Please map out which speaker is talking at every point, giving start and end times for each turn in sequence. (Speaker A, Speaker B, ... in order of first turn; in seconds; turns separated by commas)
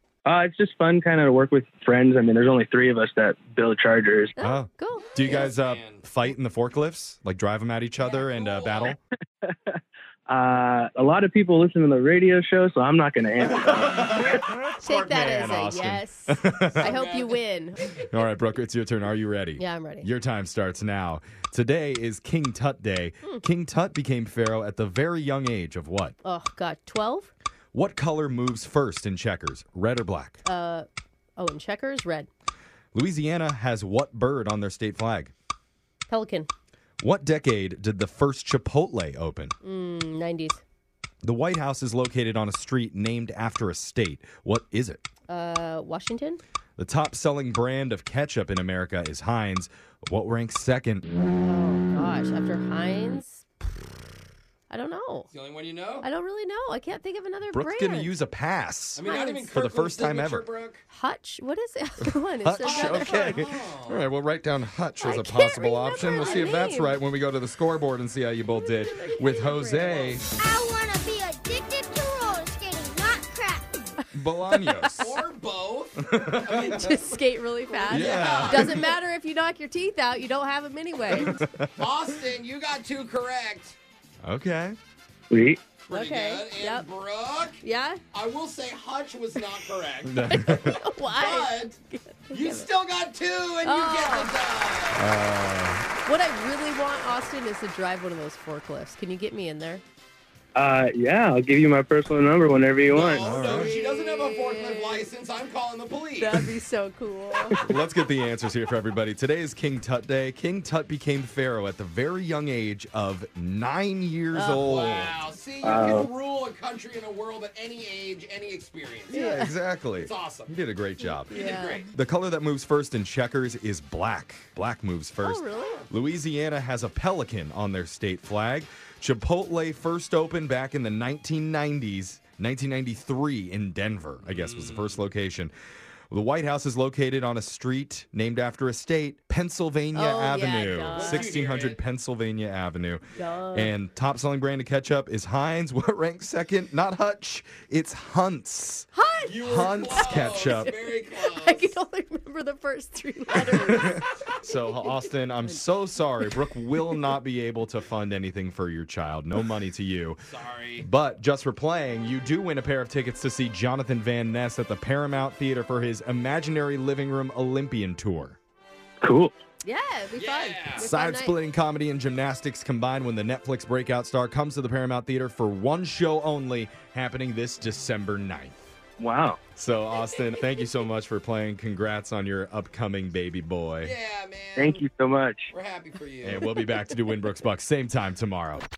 Speaker A: 0.2-4.3, Speaker B: 4.4-5.2, Speaker C: 4.4-9.0, Speaker D: 5.2-6.0, Speaker D: 8.2-9.0, Speaker A: 9.5-9.8, Speaker A: 10.3-14.2, Speaker C: 13.5-16.9, Speaker B: 14.8-17.8, Speaker D: 16.8-17.4, Speaker C: 18.1-26.1, Speaker B: 19.6-20.1, Speaker B: 26.2-27.3, Speaker C: 27.7-30.4, Speaker B: 30.4-32.3, Speaker C: 32.9-35.3, Speaker B: 36.1-36.5, Speaker C: 37.0-39.5, Speaker B: 39.6-40.6, Speaker C: 41.2-45.0, Speaker B: 45.3-46.4, Speaker C: 46.8-51.0, Speaker B: 51.3-53.5, Speaker B: 54.7-55.3, Speaker D: 55.3-56.1, Speaker B: 56.0-58.1, Speaker C: 57.5-60.5, Speaker D: 59.0-60.8, Speaker B: 59.0-59.5, Speaker B: 60.9-63.4, Speaker C: 62.4-70.3, Speaker D: 62.6-64.0, Speaker B: 65.0-67.0, Speaker D: 66.0-66.5, Speaker B: 69.0-70.2, Speaker D: 69.8-70.3, Speaker E: 70.4-73.8, Speaker B: 74.0-75.1, Speaker C: 74.1-75.2, Speaker D: 75.0-78.8, Speaker C: 76.2-76.8, Speaker B: 76.5-81.3, Speaker C: 77.9-78.8, Speaker D: 81.1-83.8, Speaker C: 81.2-81.7, Speaker C: 84.2-84.8, Speaker A: 85.3-85.6, Speaker D: 85.9-87.6, Speaker B: 85.9-86.9, Speaker B: 87.6-88.0, Speaker D: 88.1-91.8, Speaker C: 90.0-90.8, Speaker B: 90.3-92.7, Speaker D: 92.3-95.1, Speaker B: 93.6-94.4, Speaker C: 95.0-95.9, Speaker B: 96.0-99.8, Speaker A: 100.5-103.2, Speaker D: 102.9-106.5, Speaker C: 103.2-103.7, Speaker B: 103.2-105.1, Speaker B: 106.2-107.6, Speaker C: 107.6-115.1, Speaker B: 114.3-114.9, Speaker D: 114.6-119.3, Speaker A: 115.6-116.1, Speaker B: 119.1-119.5, Speaker C: 119.1-121.3, Speaker D: 120.0-120.5, Speaker B: 121.2-121.9, Speaker D: 121.3-121.9, Speaker C: 121.9-135.5, Speaker B: 125.2-125.9, Speaker D: 134.2-135.0, Speaker C: 136.1-148.9, Speaker B: 139.9-141.3, Speaker D: 140.9-141.8, Speaker B: 143.2-143.7, Speaker B: 148.9-155.6, Speaker D: 149.2-151.8, Speaker C: 149.4-150.8, Speaker C: 153.3-160.2, Speaker D: 160.3-160.9, Speaker C: 160.8-168.4, Speaker A: 169.0-169.4, Speaker B: 169.6-171.4, Speaker D: 170.2-170.9, Speaker C: 170.8-178.7, Speaker A: 179.0-179.4, Speaker C: 179.6-183.9, Speaker D: 179.9-180.5, Speaker D: 183.8-184.9, Speaker A: 184.6-185.5, Speaker D: 185.5-186.5, Speaker C: 186.2-188.7